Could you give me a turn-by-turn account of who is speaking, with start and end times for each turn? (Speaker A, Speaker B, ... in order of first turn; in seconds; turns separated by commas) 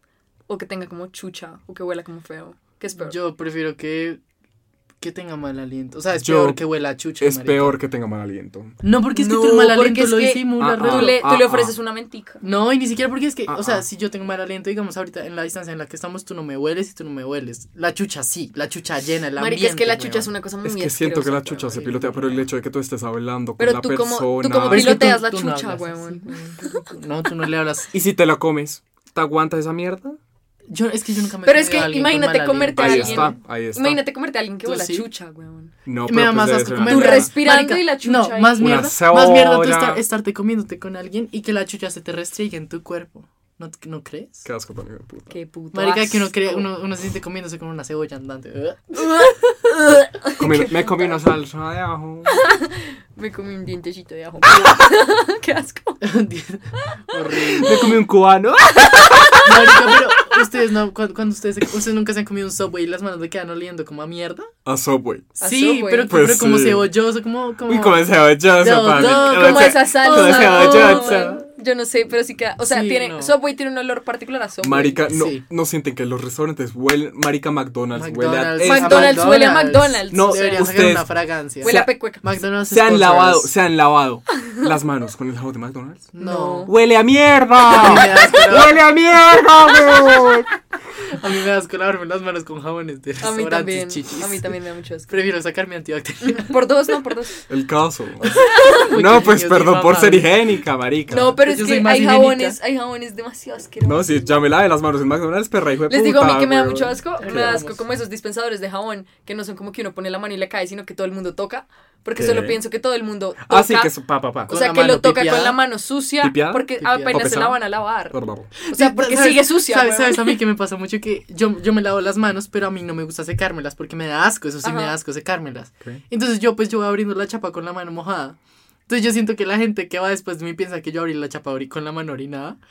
Speaker A: 0.5-3.2, Speaker B: 3.0-4.2, Speaker B: 5.0-7.8, Speaker C: 6.2-6.6, Speaker C: 7.2-8.7, Speaker B: 8.8-11.2, Speaker A: 9.1-12.4, Speaker C: 10.6-11.7, Speaker B: 12.4-20.3, Speaker C: 13.5-13.8, Speaker A: 19.4-21.8, Speaker C: 20.6-25.1, Speaker B: 21.7-22.4, Speaker A: 23.6-26.9, Speaker B: 24.6-27.9, Speaker C: 27.9-30.2, Speaker B: 30.7-33.4, Speaker A: 31.4-35.7, Speaker C: 32.8-34.0, Speaker B: 34.6-35.1, Speaker C: 35.8-37.3, Speaker B: 36.0-44.5, Speaker A: 36.8-38.7, Speaker C: 38.6-40.0, Speaker C: 44.4-45.3, Speaker A: 45.3-46.7, Speaker B: 45.7-49.2, Speaker A: 49.0-50.7, Speaker C: 50.4-52.5, Speaker A: 52.3-56.0, Speaker B: 56.0-57.9, Speaker A: 56.8-58.0, Speaker C: 57.6-60.0, Speaker B: 59.4-64.5, Speaker C: 64.6-65.3, Speaker B: 65.4-71.4, Speaker A: 65.4-66.1, Speaker C: 66.1-66.9, Speaker C: 67.7-71.4, Speaker A: 68.9-75.0, Speaker B: 72.6-73.3, Speaker C: 74.6-79.3, Speaker B: 75.1-75.4, Speaker B: 77.9-83.5, Speaker A: 78.6-80.9, Speaker C: 80.1-86.1, Speaker A: 81.6-82.2, Speaker B: 86.1-86.7, Speaker A: 86.2-86.7, Speaker C: 86.7-90.5, Speaker B: 87.6-88.8, Speaker B: 91.1-94.5, Speaker A: 93.2-95.1, Speaker B: 95.1-96.6, Speaker A: 96.2-97.4, Speaker C: 97.5-98.4, Speaker B: 98.2-102.6, Speaker A: 98.3-98.9, Speaker C: 98.9-101.3, Speaker A: 101.1-104.2, Speaker C: 103.8-107.6, Speaker A: 105.9-113.9, Speaker B: 107.2-107.8, Speaker C: 112.2-112.6, Speaker C: 113.4-114.5, Speaker B: 114.5-115.6, Speaker A: 114.5-120.4, Speaker C: 116.2-118.5, Speaker B: 116.8-117.3, Speaker B: 118.7-128.4, Speaker A: 124.6-124.9, Speaker B: 128.9-132.6